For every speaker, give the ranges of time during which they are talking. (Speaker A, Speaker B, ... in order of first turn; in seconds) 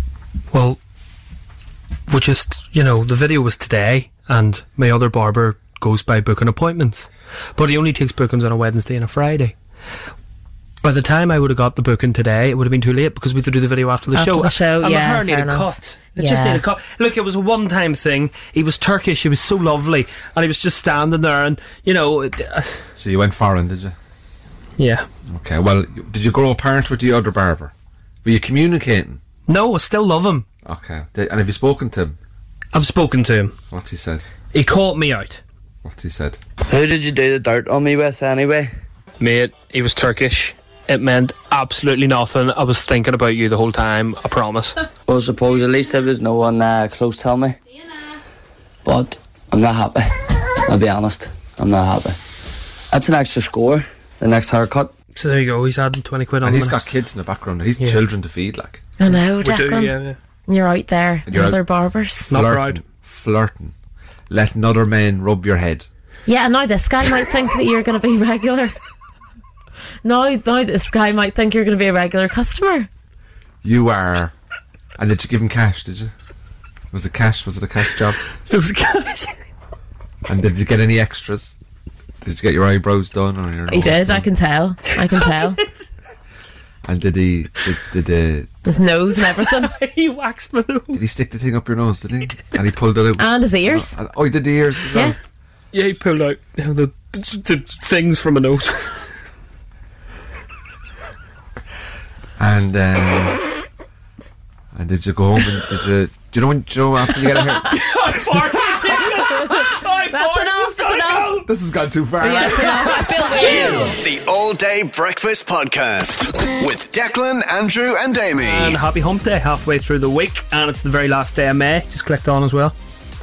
Speaker A: 0.5-0.8, 2.1-9.5, 10.8-22.8, 24.8-25.1, 29.5-30.4, 32.7-33.5, 34.5-35.4, 39.2-44.8, 55.1-56.9, 59.4-60.2, 62.3-62.8, 78.5-79.4, 85.2-85.7, 89.2-91.0, 95.7-99.0, 107.5-111.5, 112.4-113.8, 118.4-122.7
Speaker B: 14.1-16.6, 59.0-60.0, 60.5-62.3, 66.3-68.7, 70.0-72.9, 83.7-85.6, 88.6-89.7, 93.2-93.9, 108.8-111.4, 112.2-114.0
Speaker C: 23.0-23.9, 25.3-27.7, 28.2-29.2, 30.6-32.1, 33.7-34.2, 35.8-36.4, 56.4-58.8, 61.3-61.6, 62.3-63.7, 64.3-65.9, 73.6-74.3, 75.0-76.1, 76.9-78.2, 80.2-81.5, 82.2-84.3, 86.8-88.5, 90.9-95.2, 102.4-103.4, 104.7-108.2, 111.4-113.1
Speaker D: 36.7-38.7, 45.1-47.5, 48.8-52.2, 52.9-54.9
Speaker E: 114.0-118.8